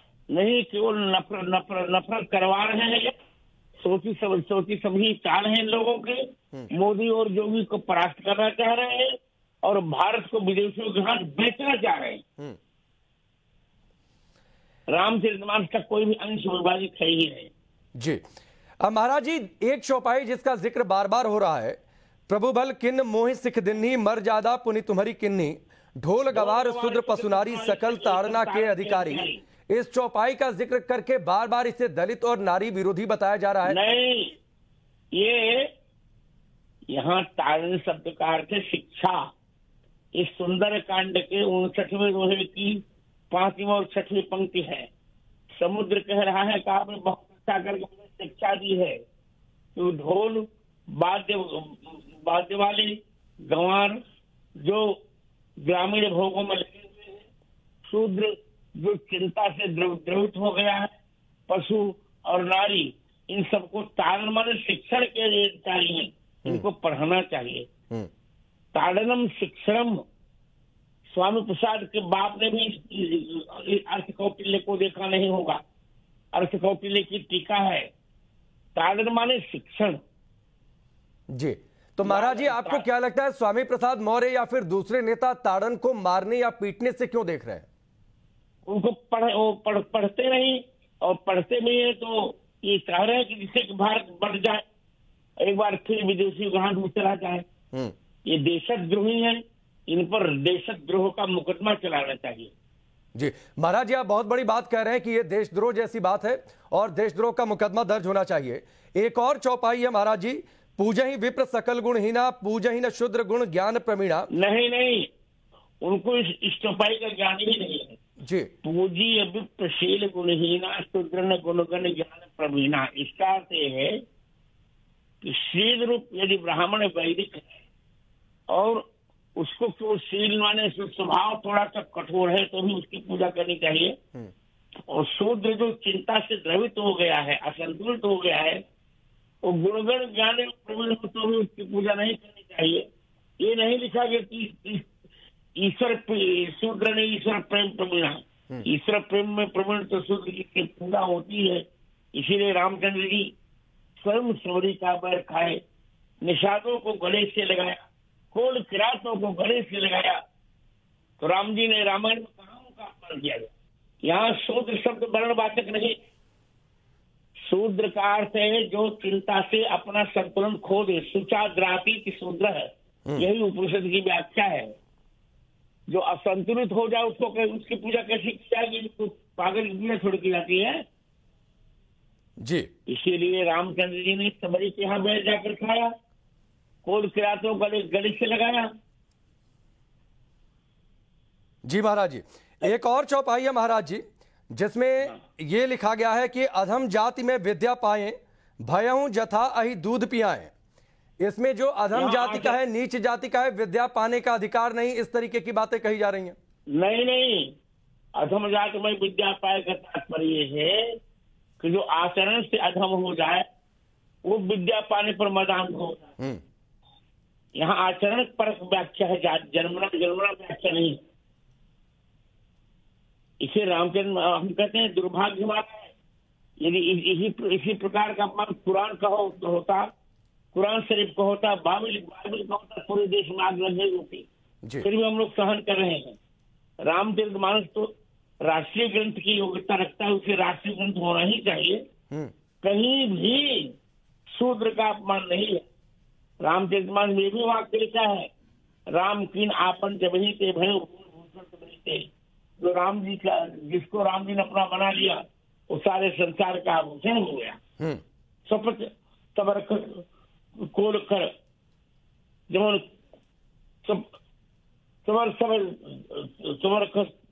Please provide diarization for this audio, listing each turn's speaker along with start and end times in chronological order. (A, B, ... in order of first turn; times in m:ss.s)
0:00.3-0:03.1 A
0:03.8-0:12.2 A
0:14.9-0:17.5 A
0:18.8-0:21.8 B
0:22.3-0:33.8 B
0:26.3-0:29.4 A
0:33.6-0:34.4 A
0:35.1-0:35.7 A
0:36.9-0:39.3 A
0:40.1-0:44.9 A
0:45.5-0:49.0 A
0:49.7-0:54.0 A
0:54.6-0:54.9 A
0:55.6-0:57.3 A
0:57.9-1:00.9 A
1:01.5-1:07.7 A
1:08.7-1:10.0 A
1:11.1-1:15.6 A
1:16.3-1:17.9 A
1:18.8-1:20.0 A
1:21.3-1:27.6 B
1:22.0-1:22.8 A
1:28.6-1:34.6 A
1:35.4-1:37.4 A
1:38.2-1:42.5 A
1:43.2-1:54.3 B
1:54.3-1:55.1 A
1:55.8-1:58.0 A
1:58.2-1:58.5 B
1:58.6-2:04.0 A
2:05.2-2:07.5 A
2:08.5-2:08.8 A
2:09.4-2:14.0 A
2:14.9-2:18.6 A
2:19.4-2:22.8 A
2:23.4-2:24.9 A
2:25.6-2:33.3 A
2:34.0-2:35.6 A
2:36.2-2:40.2 A
2:41.2-2:43.5 A
2:44.0-2:46.0 A
2:47.4-2:54.7 A
2:55.9-3:00.8 A
3:02.4-3:02.7 B
3:02.9-3:05.9 A
3:06.8-3:08.7 A
3:11.6-3:20.5 B
3:21.2-3:26.4 B
3:21.9-3:22.6 A
3:26.7-3:27.5 A
3:28.2-3:30.9 A
3:31.6-3:33.4 A
3:34.2-3:36.0 A
3:37.6-3:41.0 A
3:43.4-3:45.9 A
3:46.6-3:49.8 A
3:50.5-3:54.3 A
3:54.8-3:56.2 A
3:56.8-3:57.9 A
3:58.4-4:01.8 A
4:02.6-4:03.7 A
4:04.3-4:05.6 A
4:06.4-4:08.3 A
4:08.9-4:12.1 A
4:12.6-4:17.6 A
4:18.4-4:20.0 A
4:20.6-4:21.3 A
4:22.5-4:22.8 A
4:23.8-4:24.1 A
4:25.0-4:27.1 A